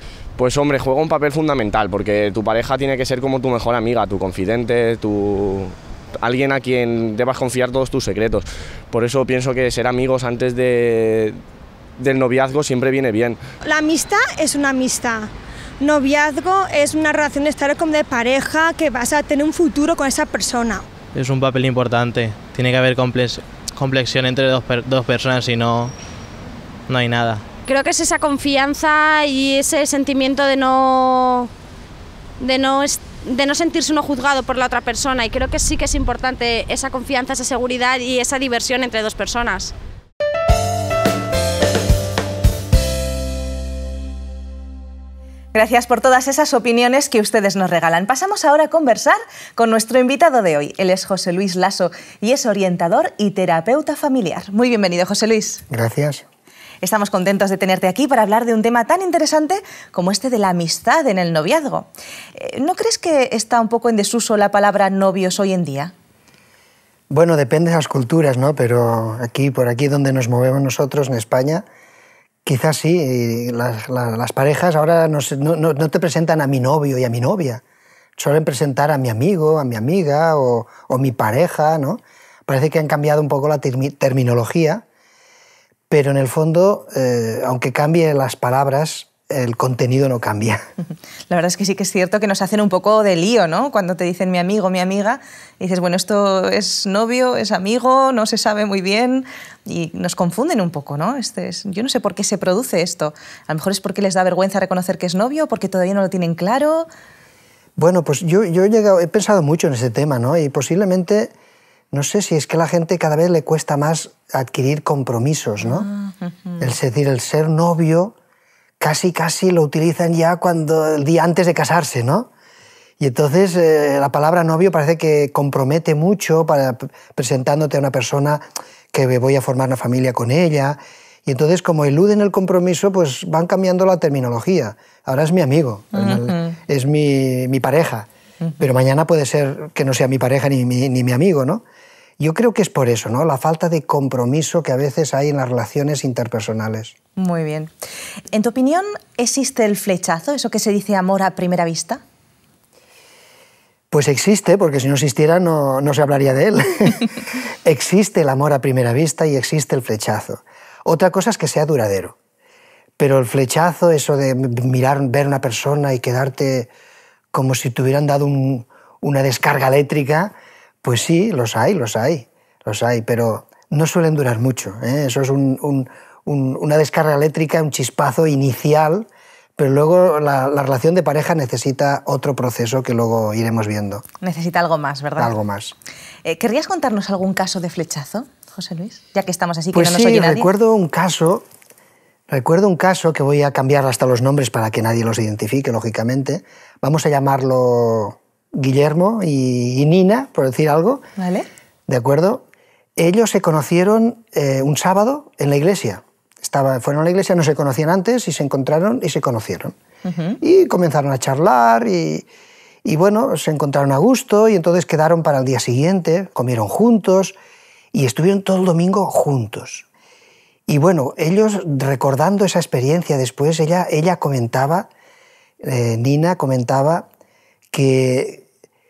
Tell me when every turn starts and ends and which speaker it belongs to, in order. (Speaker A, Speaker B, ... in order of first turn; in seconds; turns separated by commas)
Speaker A: 0.4-11.4, Speaker A: 12.0-13.4, Speaker B: 13.7-15.3, Speaker B: 15.8-20.9, Speaker C: 21.1-25.9, Speaker C: 26.9-27.4, Speaker D: 27.7-31.5, Speaker D: 32.4-39.7, Speaker E: 45.5-55.6, Speaker F: 55.7-56.2, Speaker E: 56.8-65.9, Speaker F: 67.1-71.7, Speaker F: 72.5-77.6, Speaker F: 78.2-84.8, Speaker F: 85.9-90.7, Speaker E: 91.3-106.9, Speaker F: 107.8-111.3, Speaker F: 111.9-115.9, Speaker E: 115.6-116.6, Speaker F: 116.6-118.2, Speaker F: 118.8-122.3, Speaker F: 123.0-138.1, Speaker E: 135.9-136.6, Speaker F: 138.6-141.6, Speaker F: 142.2-146.9, Speaker E: 147.2-147.7, Speaker E: 148.3-152.0, Speaker F: 153.9-157.1, Speaker F: 157.7-162.2, Speaker F: 163.0-166.7, Speaker F: 167.3-184.0, Speaker E: 184.2-185.3, Speaker F: 185.2-185.8, Speaker E: 186.2-190.5, Speaker F: 189.7-191.4, Speaker F: 192.3-201.1, Speaker E: 201.2-201.5, Speaker F: 201.9-202.4, Speaker F: 203.0-209.8, Speaker E: 210.1-210.4, Speaker F: 210.4-212.3, Speaker F: 212.8-217.4, Speaker F: 217.9-219.9, Speaker F: 220.7-224.9, Speaker F: 225.6-227.1, Speaker F: 227.7-228.4